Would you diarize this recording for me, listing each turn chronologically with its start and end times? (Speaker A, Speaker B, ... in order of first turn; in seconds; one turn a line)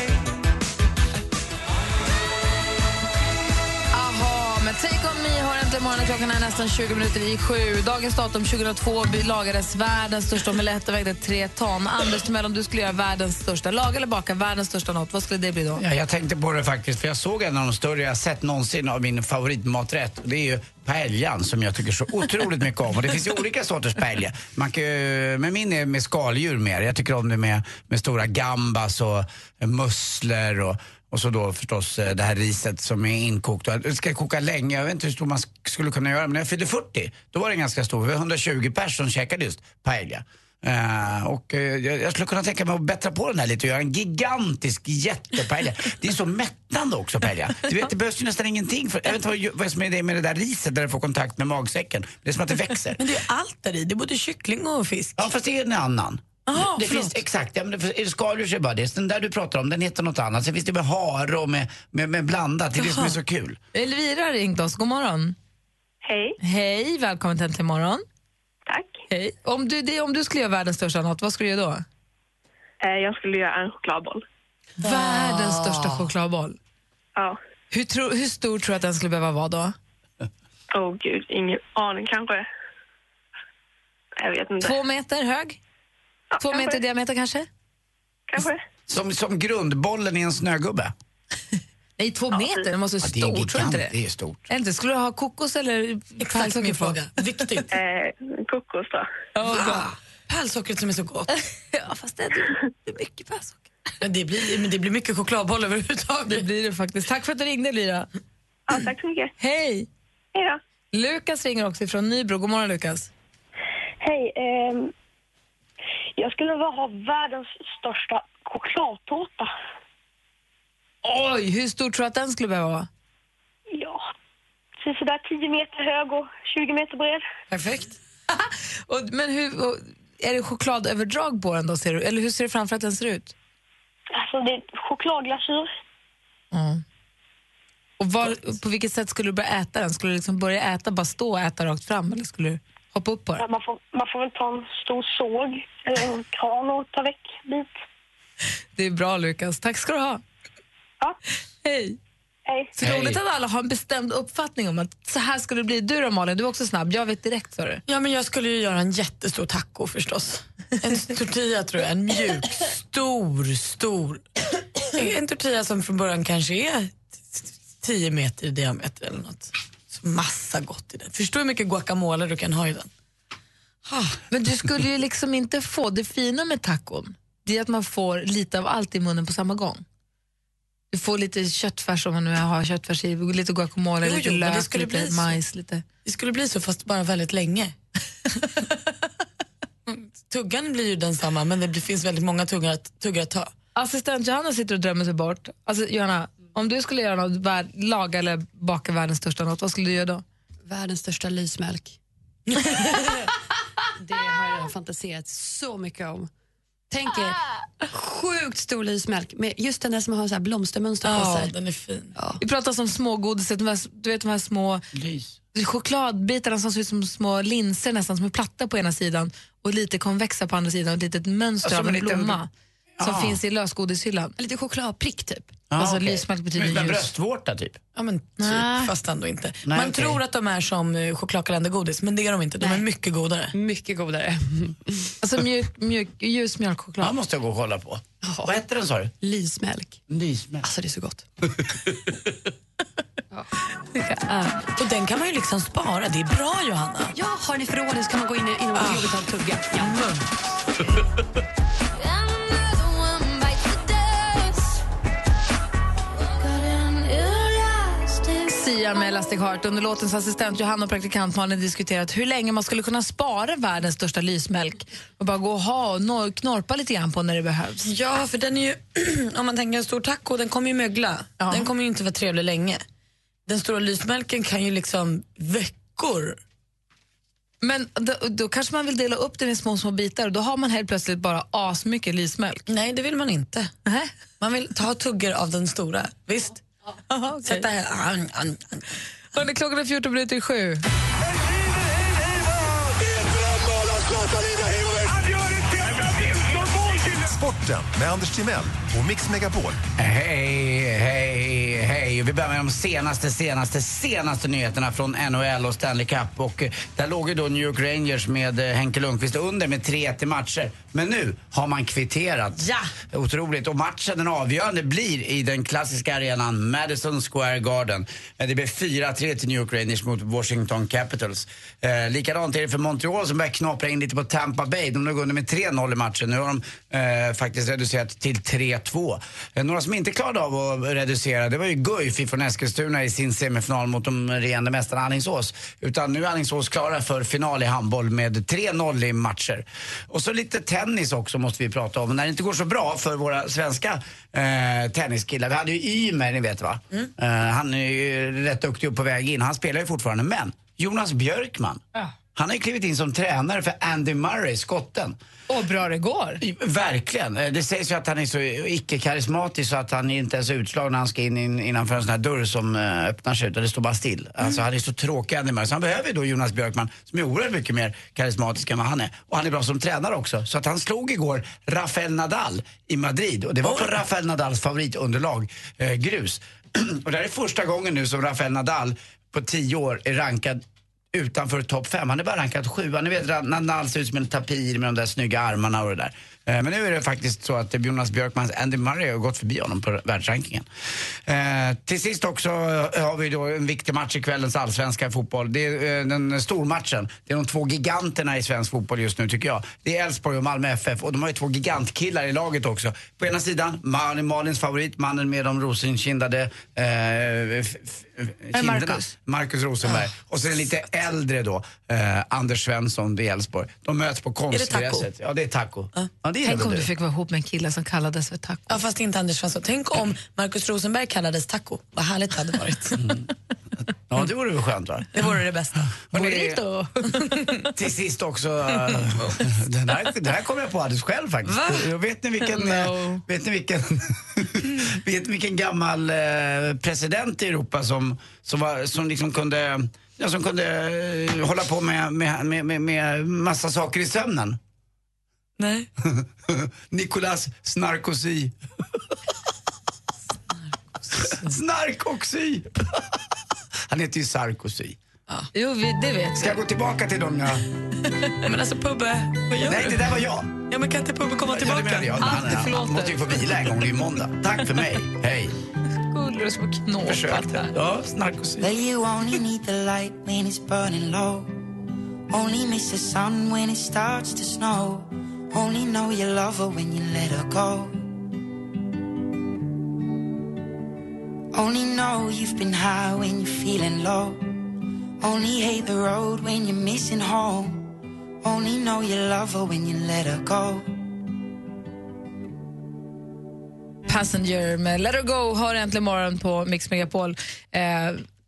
Speaker A: 3.9-15.8
Speaker B: 15.8-53.0
Speaker C: 53.0-55.3
Speaker B: 55.2-63.6
Speaker C: 56.5-57.1
Speaker C: 62.8-63.1
Speaker A: 63.7-65.4
Speaker D: 66.0-66.4
Speaker A: 66.4-68.0
Speaker D: 68.7-69.0
Speaker A: 69.1-71.8
Speaker D: 72.8-74.2
Speaker A: 74.8-76.6
Speaker C: 74.9-75.6
Speaker A: 77.7-79.8
Speaker D: 80.7-82.5
Speaker D: 84.2-84.8
Speaker A: 84.6-85.6
Speaker D: 86.3-86.8
Speaker A: 86.4-87.5
Speaker D: 88.3-88.6
Speaker B: 88.9-90.9
Speaker A: 92.0-93.9
Speaker B: 93.0-94.5
Speaker A: 94.5-97.0
Speaker C: 96.2-97.7
Speaker D: 97.7-99.1
Speaker A: 99.3-99.9
Speaker C: 99.4-101.3
Speaker A: 101.7-103.7
Speaker C: 104.0-106.5
Speaker A: 106.3-108.1
Speaker D: 108.7-109.3
Speaker A: 109.4-109.9
Speaker D: 110.3-110.6
Speaker A: 110.9-113.1
Speaker E: 114.0-114.9
Speaker E: 116.2-119.5
Speaker A: 121.0-122.9
Speaker E: 123.7-124.0
Speaker E: 124.8-127.2
Speaker C: 127.5-127.9
Speaker A: 128.3-133.3
Speaker E: 134.1-135.7
Speaker A: 136.5-136.8
Speaker A: 138.0-143.4
Speaker E: 143.4-147.7
Speaker A: 148.8-150.2
Speaker A: 151.6-152.0
Speaker E: 152.5-152.7
Speaker A: 152.8-157.8
Speaker B: 152.8-153.2
Speaker C: 157.9-164.2
Speaker C: 164.8-172.9
Speaker C: 173.9-174.2
Speaker A: 174.3-179.8
Speaker A: 180.9-185.8
Speaker C: 184.0-185.4
Speaker C: 186.0-187.8
Speaker C: 189.9-193.5
Speaker A: 193.8-200.2
Speaker F: 200.6-202.0
Speaker C: 202.5-203.3
Speaker F: 204.0-206.3
Speaker F: 206.9-211.5
Speaker C: 211.0-212.1
Speaker F: 212.2-212.4
Speaker A: 212.4-214.8
Speaker B: 214.9-215.3
Speaker A: 215.5-222.5
Speaker B: 221.6-222.4
Speaker B: 223.0-223.4
Speaker A: 223.0-224.3
Speaker F: 224.4-225.5
Speaker B: 225.7-227.8
Speaker A: 225.8-227.1
Speaker C: 227.9-233.5
Speaker A: 228.4-228.9
Speaker B: 229.7-230.2
Speaker F: 232.6-232.8
Speaker F: 233.5-235.1
Speaker A: 235.2-237.2
Speaker B: 237.0-239.1
Speaker F: 238.2-238.6
Speaker F: 239.2-240.0
Speaker B: 240.1-240.7
Speaker F: 240.6-241.2
Speaker B: 241.6-242.3
Speaker A: 244.0-244.3
Speaker C: 244.8-247.1
Speaker F: 247.1-250.0
Speaker C: 248.8-249.2
Speaker C: 249.8-250.2
Speaker A: 258.4-267.9
Speaker C: 267.8-272.8
Speaker A: 271.4-271.7
Speaker C: 273.5-276.4
Speaker A: 277.6-282.7
Speaker C: 282.7-283.7
Speaker A: 283.9-284.1
Speaker C: 284.4-286.6
Speaker A: 287.1-287.7
Speaker C: 287.4-288.9
Speaker A: 289.3-290.8
Speaker G: 291.3-299.8
Speaker B: 300.0-351.8
Speaker B: 352.3-355.2
Speaker A: 355.5-356.4
Speaker B: 356.4-380.6
Speaker B: 381.1-390.7
Speaker B: 391.2-416.9
Speaker A: 408.5-409.1
Speaker C: 414.5-415.1
Speaker A: 416.4-418.8
Speaker C: 418.7-423.1
Speaker B: 423.0-423.3
Speaker B: 424.1-425.2
Speaker C: 425.1-425.8
Speaker B: 426.0-426.6
Speaker A: 426.1-427.7
Speaker B: 427.7-444.6
Speaker C: 431.5-431.9
Speaker C: 445.6-445.9
Speaker B: 446.0-448.5
Speaker C: 451.0-451.5
Speaker B: 451.2-453.1
Speaker B: 453.9-455.0
Speaker A: 455.5-456.6
Speaker B: 456.4-457.7
Speaker C: 458.4-462.5
Speaker B: 459.6-460.6
Speaker B: 461.4-465.6
Speaker A: 462.2-463.5
Speaker A: 466.0-467.8
Speaker B: 467.0-468.7
Speaker H: 468.6-471.6
Speaker H: 472.3-478.0
Speaker H: 481.5-484.5
Speaker H: 485.2-487.9
Speaker H: 488.4-490.9
Speaker A: 494.1-498.2